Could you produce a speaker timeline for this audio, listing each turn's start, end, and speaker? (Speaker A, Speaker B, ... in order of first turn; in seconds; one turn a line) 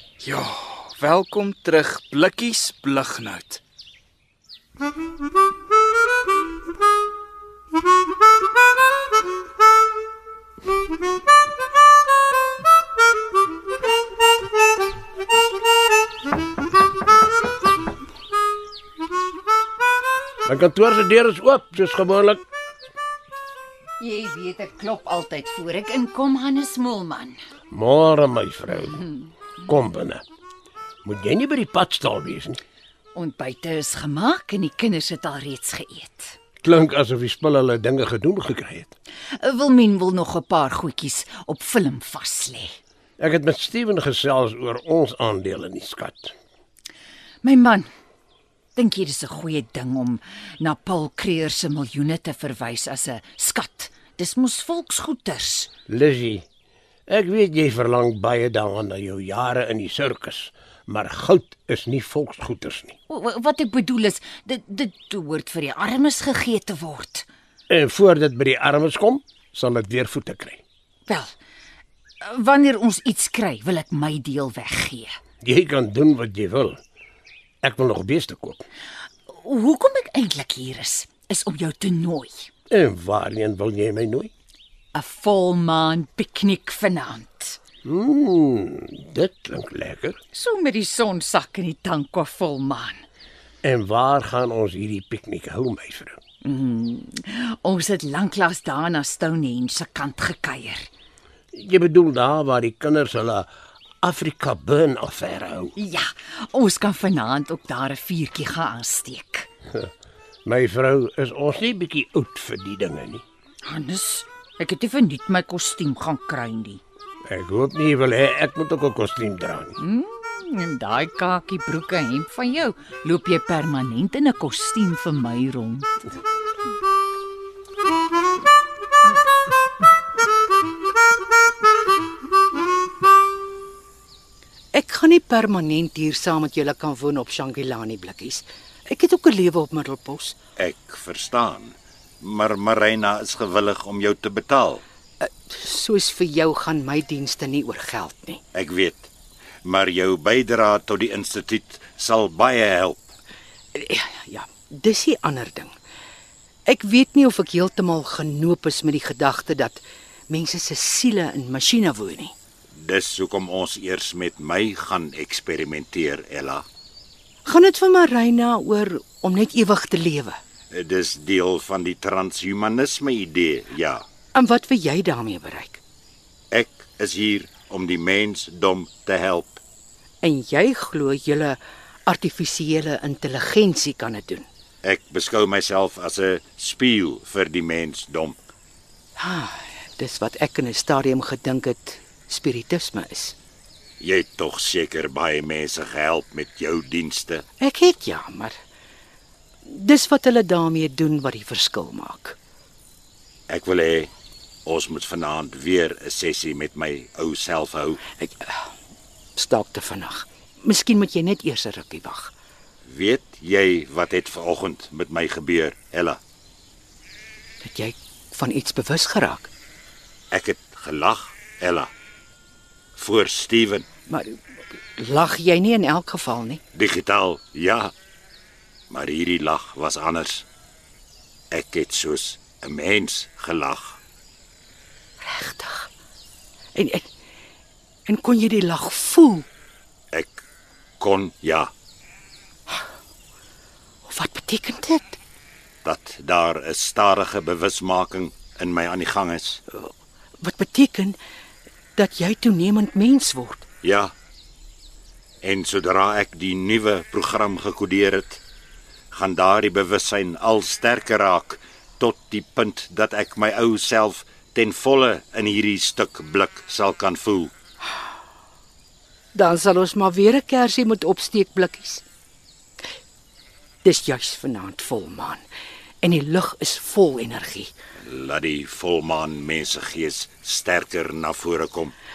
Speaker A: 0.2-3.6
Speaker B: 20.4-22.4
Speaker C: 24.0-27.4
Speaker B: 27.7-30.2
Speaker B: 31.0-32.6
Speaker C: 33.1-36.4
Speaker B: 36.6-38.9
Speaker C: 39.4-42.8
Speaker B: 43.2-46.3
Speaker C: 47.4-47.9
Speaker C: 48.8-55.7
Speaker B: 55.9-56.4
Speaker B: 57.1-63.0
Speaker C: 63.1-67.3
Speaker B: 67.7-70.6
Speaker C: 71.0-71.3
Speaker C: 72.2-75.1
Speaker B: 75.4-76.8
Speaker B: 77.6-78.6
Speaker C: 79.3-82.5
Speaker B: 82.7-84.3
Speaker C: 84.9-87.6
Speaker B: 87.8-90.2
Speaker C: 90.3-93.0
Speaker B: 93.6-96.2
Speaker C: 96.4-100.9
Speaker B: 101.5-103.5
Speaker B: 104.0-105.7
Speaker C: 105.8-109.5
Speaker B: 110.4-113.2
Speaker C: 113.6-116.8
Speaker B: 117.3-119.8
Speaker C: 119.8-125.9
Speaker D: 134.7-140.3
Speaker E: 140.6-144.8
Speaker D: 145.2-148.4
Speaker E: 148.5-149.1
Speaker E: 149.6-153.1
Speaker D: 153.7-155.7
Speaker D: 156.7-162.3
Speaker E: 162.7-166.7
Speaker D: 167.4-170.4
Speaker E: 170.7-174.0
Speaker D: 174.3-175.8
Speaker E: 176.5-179.6
Speaker D: 180.2-184.4
Speaker E: 184.8-188.4
Speaker D: 189.2-193.3
Speaker E: 194.0-197.4
Speaker D: 197.6-198.5
Speaker D: 199.7-202.4
Speaker E: 203.5-204.1
Speaker E: 204.6-208.0
Speaker D: 208.2-208.6
Speaker D: 209.3-212.3
Speaker E: 212.8-216.2
Speaker D: 217.6-219.5
Speaker E: 220.3-221.9
Speaker E: 222.9-223.8
Speaker D: 224.1-224.3
Speaker D: 225.0-226.6
Speaker E: 226.7-227.9
Speaker E: 228.9-230.4
Speaker E: 231.5-234.0
Speaker D: 235.2-235.9
Speaker D: 236.7-237.1
Speaker D: 238.1-239.4
Speaker E: 240.1-240.4
Speaker E: 241.0-241.7
Speaker D: 244.1-245.2
Speaker E: 245.8-249.6
Speaker D: 250.4-251.2
Speaker D: 252.0-253.6
Speaker E: 253.8-254.1
Speaker E: 255.4-258.4
Speaker E: 259.1-267.5
Speaker D: 269.3-272.0
Speaker D: 273.8-275.4
Speaker D: 276.0-277.7
Speaker E: 278.0-281.9